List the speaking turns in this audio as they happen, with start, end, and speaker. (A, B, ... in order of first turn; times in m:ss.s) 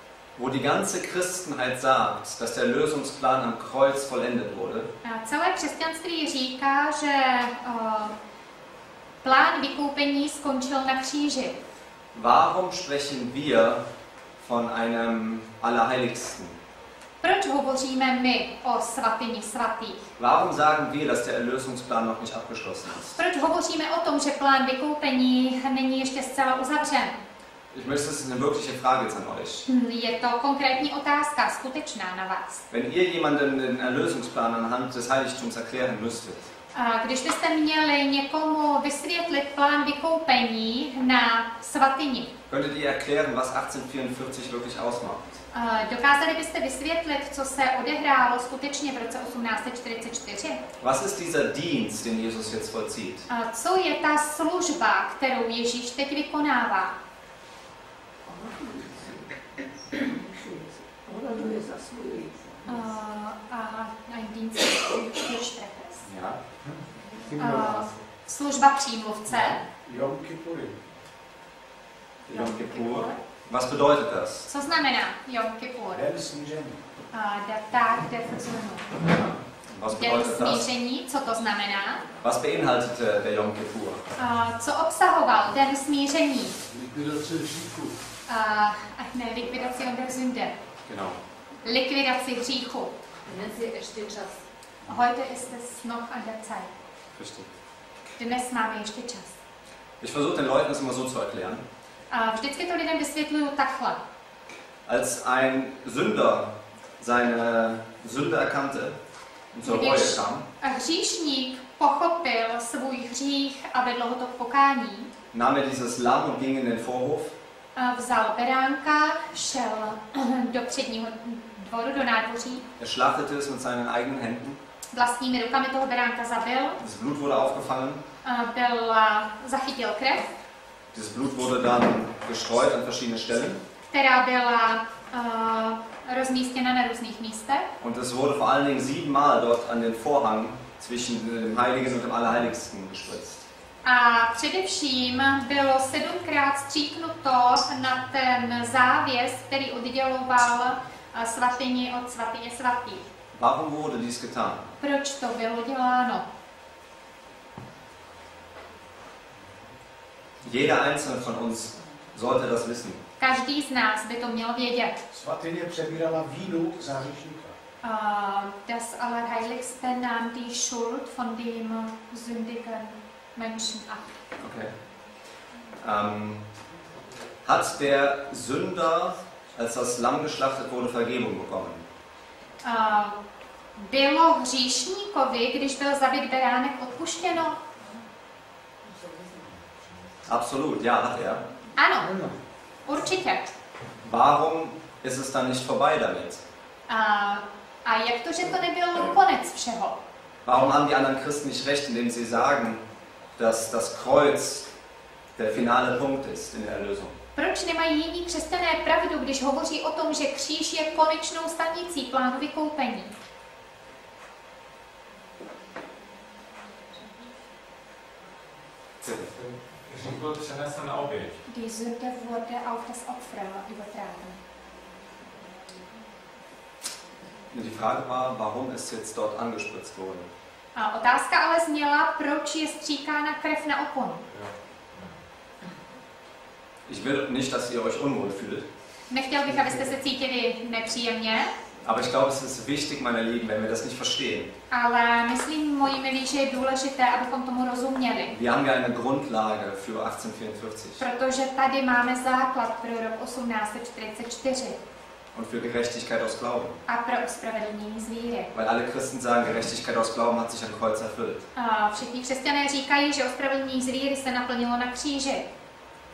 0:00.4-0:04.9 A
0:05.0-0:08.1 B
0:09.2-0:11.6 B
0:12.1-0:13.8 A
0:14.4-0:16.6 A
0:17.2-0:20.1 B
0:20.2-0:23.2 A
0:23.1-0:27.2 B
0:27.7-0:29.6 A
0:29.6-0:32.6 B
0:32.7-0:36.5 A
0:36.7-0:42.3 B
0:42.5-0:45.4 A
0:45.5-0:50.6 B
0:50.8-0:53.2 A
0:53.3-0:56.9 B
0:58.3-0:58.8 C
1:00.1-1:00.4 C
1:01.0-1:02.6 C
1:02.6-1:06.0 B
1:06.0-1:06.4 A
1:07.4-1:09.6 B
1:07.4-1:07.8 D
1:09.8-1:10.8 D
1:12.3-1:14.5 A
1:12.3-1:13.2 B
1:14.5-1:16.0 B
1:15.9-1:16.8 D
1:17.1-1:18.9 B
1:19.1-1:20.7 A
1:19.9-1:22.0 B
1:22.2-1:24.0 A
1:24.2-1:26.6 B
1:26.7-1:27.9 D
1:28.3-1:30.6 B
1:30.8-1:31.2 A
1:31.6-1:32.9 B
1:33.3-1:34.3 C
1:34.9-1:36.7 B
1:37.2-1:37.5 A
1:38.2-1:39.4 B
1:40.0-1:41.6 A
1:42.1-1:44.0 B
1:44.8-1:49.0 A
1:49.5-1:50.4 A
1:49.6-1:55.1 B
1:55.3-1:57.3 A
1:57.8-2:02.6 B
2:02.8-2:04.6 A
2:04.9-2:06.8 B
2:06.8-2:08.0 A
2:08.2-2:10.3 B
2:10.9-2:13.6 A
2:13.9-2:17.7 B
2:17.8-2:23.4 A
2:23.8-2:33.0 B
2:33.3-2:34.7 A
2:34.8-2:36.2 B
2:40.4-2:43.0 A
2:43.2-2:45.0 B
2:45.1-2:47.5 D
2:47.8-2:54.1 B
2:54.4-2:54.7 A
2:55.8-2:56.4 A
2:57.4-3:01.8 A
3:02.6-3:03.1 B
3:03.8-3:07.6 B
3:10.3-3:11.4 A
3:11.8-3:12.2 B
3:12.8-3:13.5 B
3:14.0-3:16.4 A
3:16.9-3:20.0 B
3:20.4-3:22.8 A
3:23.4-3:24.7 A
3:25.4-3:27.1 A
3:27.4-3:33.1 B
3:39.0-3:39.3 A
3:39.4-3:41.3 D
3:41.5-3:44.4 B
3:47.5-3:50.3 A
3:50.8-3:54.3 B
3:56.9-3:58.7 A
3:59.1-4:01.5 B
4:01.8-4:04.5 A
4:04.7-4:08.3 B
4:08.3-4:11.0 A
4:11.0-4:14.8 B
4:15.3-4:16.8 A
4:16.9-4:18.5 B
4:18.5-4:21.4 A
4:21.6-4:25.4 B